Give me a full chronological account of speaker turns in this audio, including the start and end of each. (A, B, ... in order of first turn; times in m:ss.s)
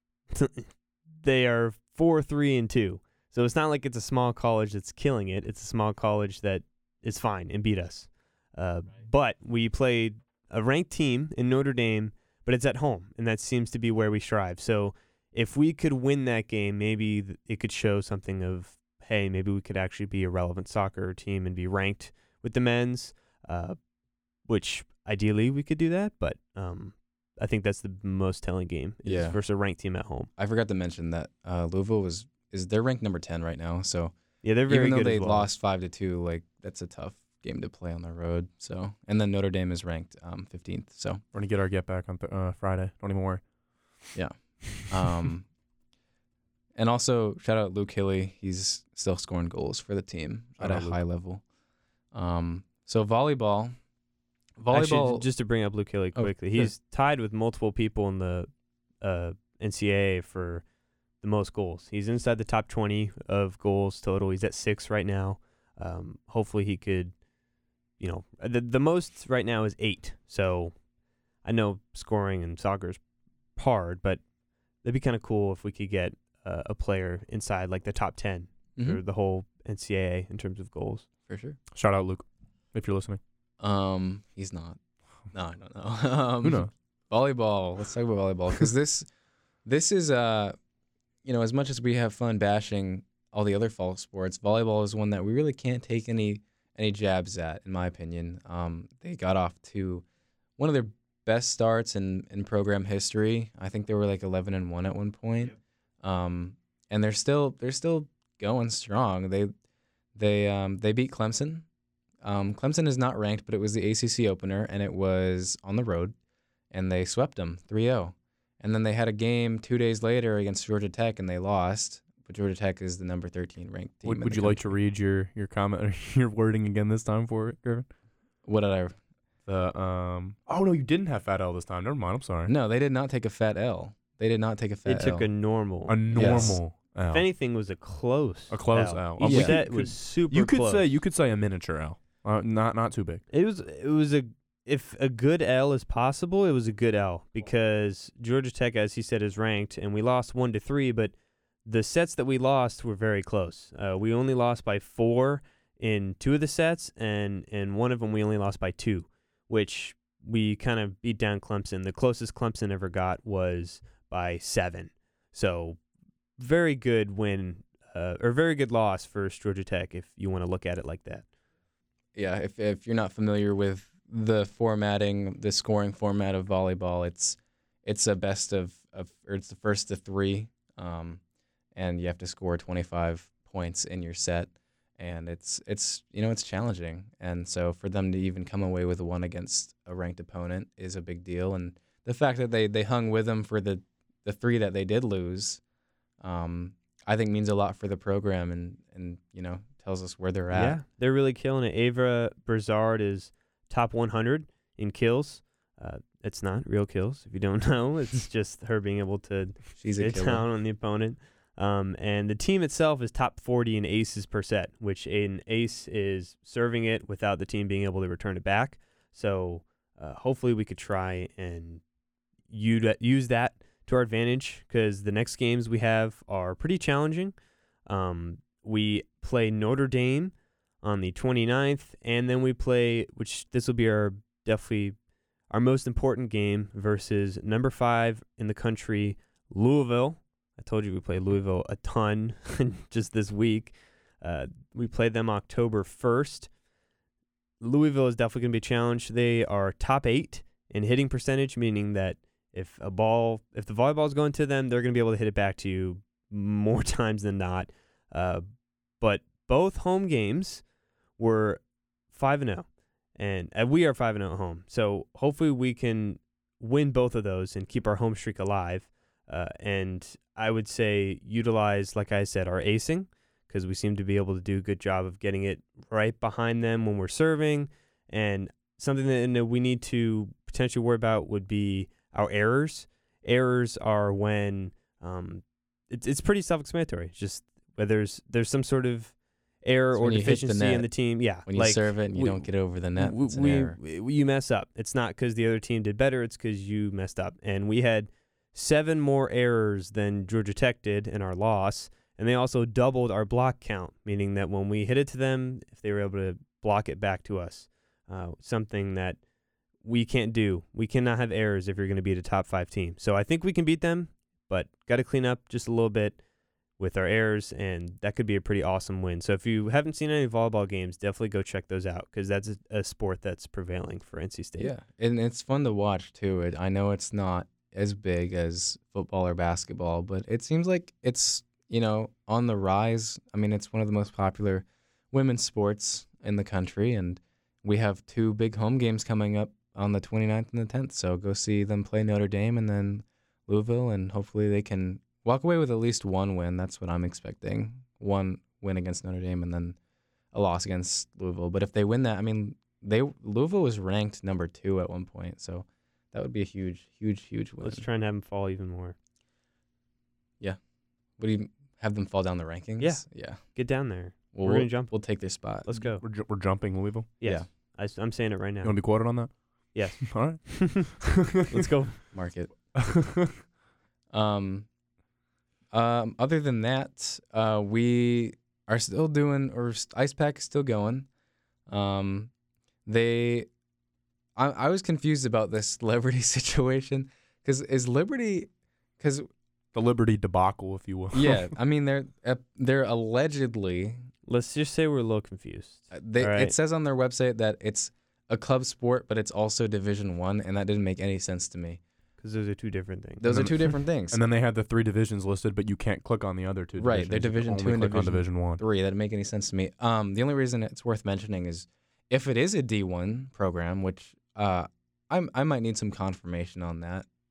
0:00.3-0:23.8 A
0:24.4-0:30.3 A
0:29.0-0:29.4 B
0:30.4-0:34.2 B
0:34.4-0:35.5 A
0:34.7-0:41.2 B
0:41.3-0:43.4 C
0:44.2-0:45.5 B
0:46.8-0:51.4 B
0:50.6-0:51.0 C
0:52.1-0:53.7 B
0:54.6-0:55.3 B
0:54.7-0:58.5 A
0:56.2-0:56.7 B
0:59.0-1:00.6 A
1:01.2-1:07.2 A
1:08.0-1:10.8 A
1:11.4-1:13.0 A
1:13.6-1:14.2 A
1:14.8-1:21.1 A
1:21.3-1:21.6 B
1:21.7-1:23.2 C
1:23.6-1:24.8 B
1:25.3-1:29.1 B
1:26.4-1:26.7 C
1:29.6-1:30.6 B
1:31.2-1:40.0 B
1:40.6-1:49.5 B
1:50.2-1:51.6 B
1:52.2-1:56.2 B
1:56.7-2:04.7 B
2:04.0-2:07.9 C
2:08.4-2:09.0 B
2:09.5-2:12.5 C
2:12.5-2:15.3 B
2:14.9-2:20.8 A
2:15.9-2:17.2 C
2:16.1-2:16.6 B
2:18.5-2:23.2 C
2:19.2-2:19.6 B
2:23.3-2:45.8 A
2:46.4-2:51.3 A
2:52.2-3:01.2 B
3:01.8-3:15.6 B
3:16.2-3:20.8 B
3:20.5-3:41.8 A
3:29.8-3:30.5 B
3:42.5-3:47.4 A
3:47.9-3:55.0 A
3:55.5-4:06.5 A
4:07.6-4:18.4 A
4:19.0-4:20.6 A
4:21.2-5:09.2 A
4:49.9-4:53.8 B
5:09.8-5:16.2 A
5:16.8-5:24.7 A
5:24.6-5:49.8 B
5:50.3-5:57.8 B
5:57.6-5:59.0 A
6:01.2-6:03.7 B
6:02.8-6:06.0 A
6:04.3-6:05.7 B
6:05.8-6:07.1 C
6:07.2-6:08.8 A
6:08.6-6:11.1 C
6:09.7-6:12.0 A
6:12.1-6:12.9 B
6:12.9-6:13.3 C
6:14.1-6:14.7 B
6:15.7-6:21.1 B
6:21.7-6:22.3 B
6:22.9-6:23.5 B
6:24.4-6:29.3 B
6:29.7-6:31.4 C
6:31.1-6:34.1 B
6:34.3-6:36.5 A
6:35.9-6:41.8 B
6:42.2-6:43.7 A
6:43.2-6:44.2 B
6:43.3-6:48.6 C
6:46.8-6:57.1 B